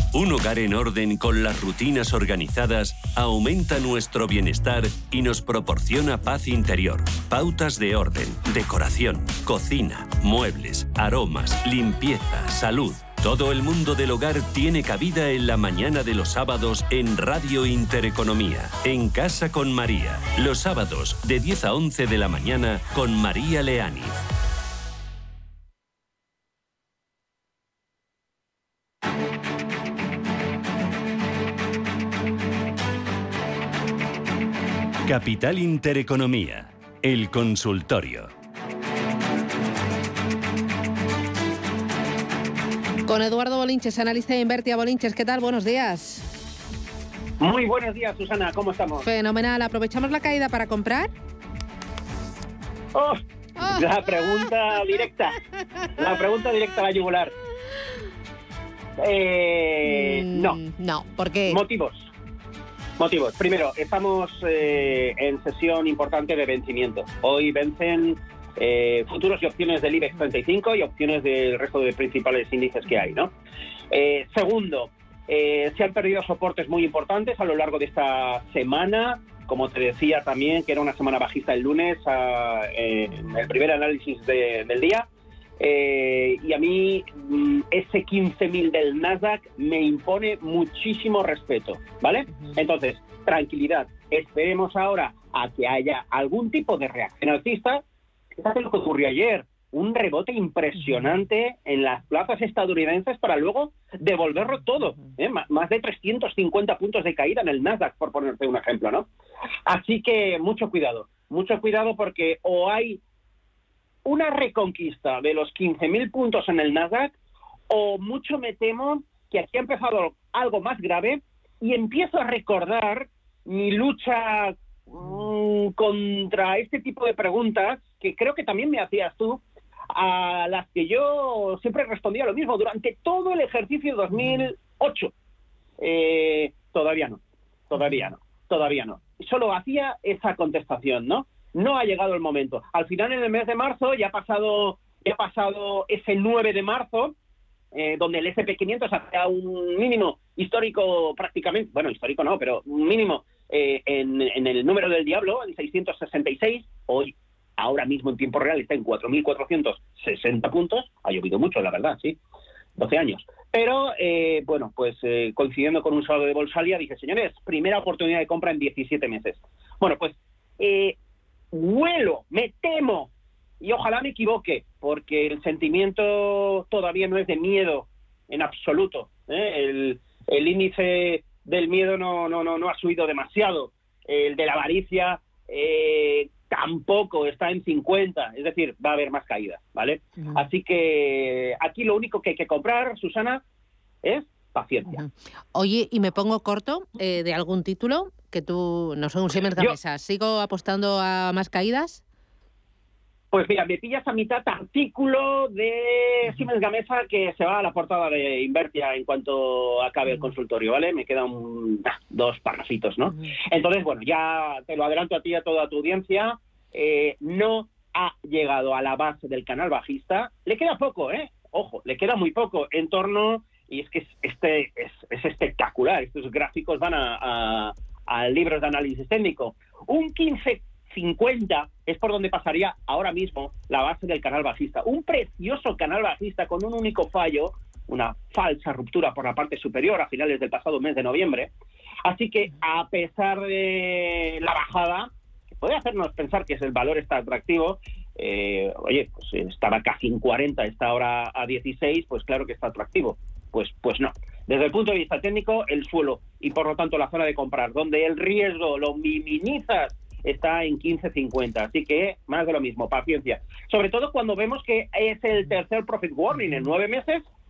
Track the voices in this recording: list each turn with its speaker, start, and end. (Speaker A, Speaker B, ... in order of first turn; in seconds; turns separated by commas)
Speaker A: 0.1-24.2, Speaker A: 35.0-38.3, Speaker B: 43.0-46.3, Speaker C: 47.4-49.0, Speaker B: 49.0-51.1, Speaker C: 52.9-55.4, Speaker B: 53.6-53.9, Speaker C: 56.0-57.3, Speaker C: 59.0-60.6, Speaker B: 59.8-61.6, Speaker C: 61.5-62.1, Speaker C: 63.0-73.3, Speaker C: 73.9-85.1, Speaker C: 85.6-97.8, Speaker C: 98.3-109.1, Speaker B: 104.4-105.1, Speaker C: 109.7-113.0, Speaker C: 114.0-117.1, Speaker C: 117.7-135.1, Speaker B: 134.1-134.5, Speaker C: 135.8-137.2, Speaker C: 137.7-147.1, Speaker B: 137.7-138.1, Speaker C: 147.7-162.2, Speaker C: 162.8-171.0, Speaker C: 171.5-193.4, Speaker C: 194.0-195.0, Speaker B: 194.8-202.0, Speaker C: 203.3-241.5, Speaker C: 242.0-267.2